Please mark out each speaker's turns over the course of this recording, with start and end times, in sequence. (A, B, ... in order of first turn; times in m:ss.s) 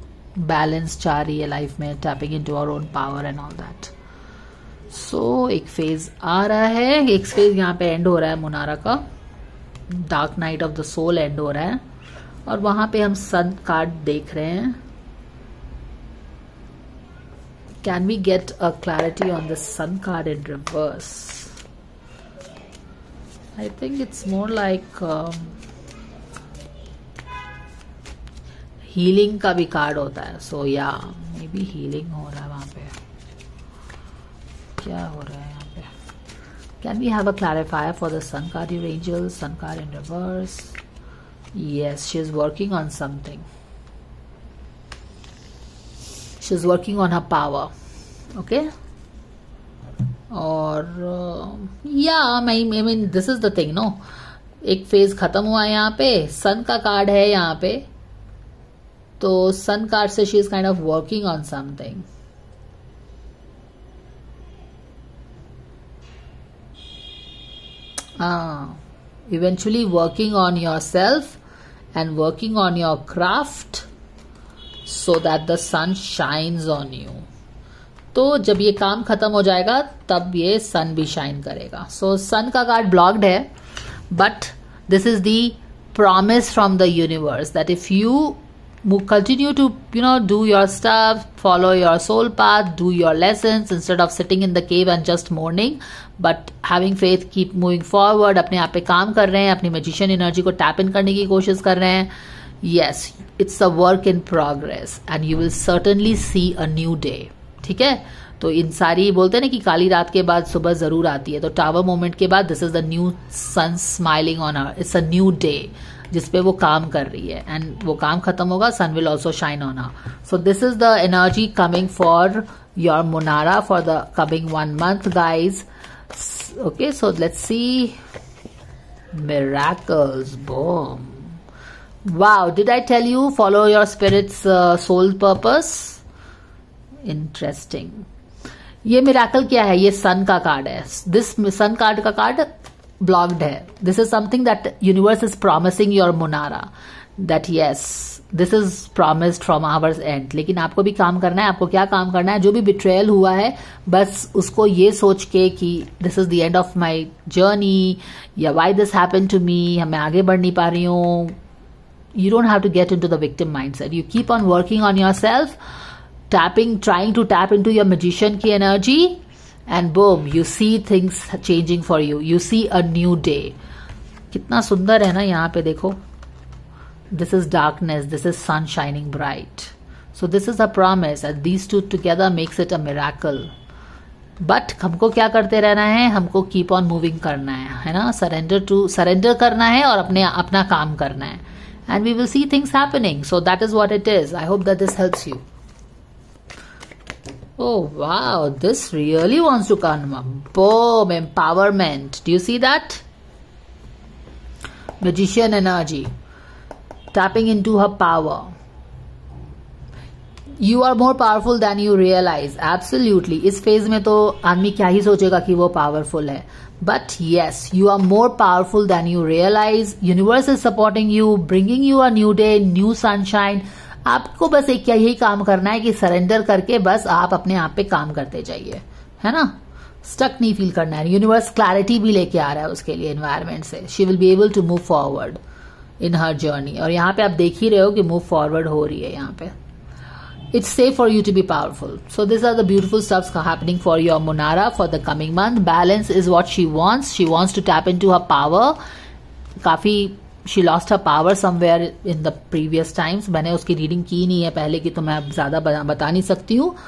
0:00.4-0:03.9 A
0:04.9-0:09.0 A
0:09.9-0:11.8 A
0:12.5-0:14.8 A
0:17.8-0:21.6 A
0:23.6-0:25.6 A
0:28.9-0:33.0 A
0:34.8-0:35.9 A
0:36.8-0:40.8 A
0:41.5-0:43.5 A
0:46.4-0:47.7 A
0:48.4-0:48.7 A
0:50.3-0:54.0 A
0:54.6-0:57.9 A
0:59.2-1:02.1 A
1:08.2-1:11.4 A
1:12.0-1:13.9 A
1:14.8-1:17.3 A
1:18.1-1:23.5 A
1:24.1-1:42.1 A
1:42.6-2:08.0 A
2:09.1-2:11.4 A
2:12.0-2:16.0 A
2:17.0-2:18.1 A
2:18.8-2:22.5 A
2:23.0-2:41.4 A
2:42.2-2:45.6 A
2:46.3-2:53.6 A
2:54.3-2:56.0 A
2:57.1-3:03.5 A
3:04.4-3:15.4 A
3:17.6-3:23.0 A
3:25.0-3:26.1 A
3:27.1-3:28.5 A
3:30.6-3:55.4 A
3:56.0-3:59.5 A
4:00.5-4:08.8 A
4:09.6-4:16.8 A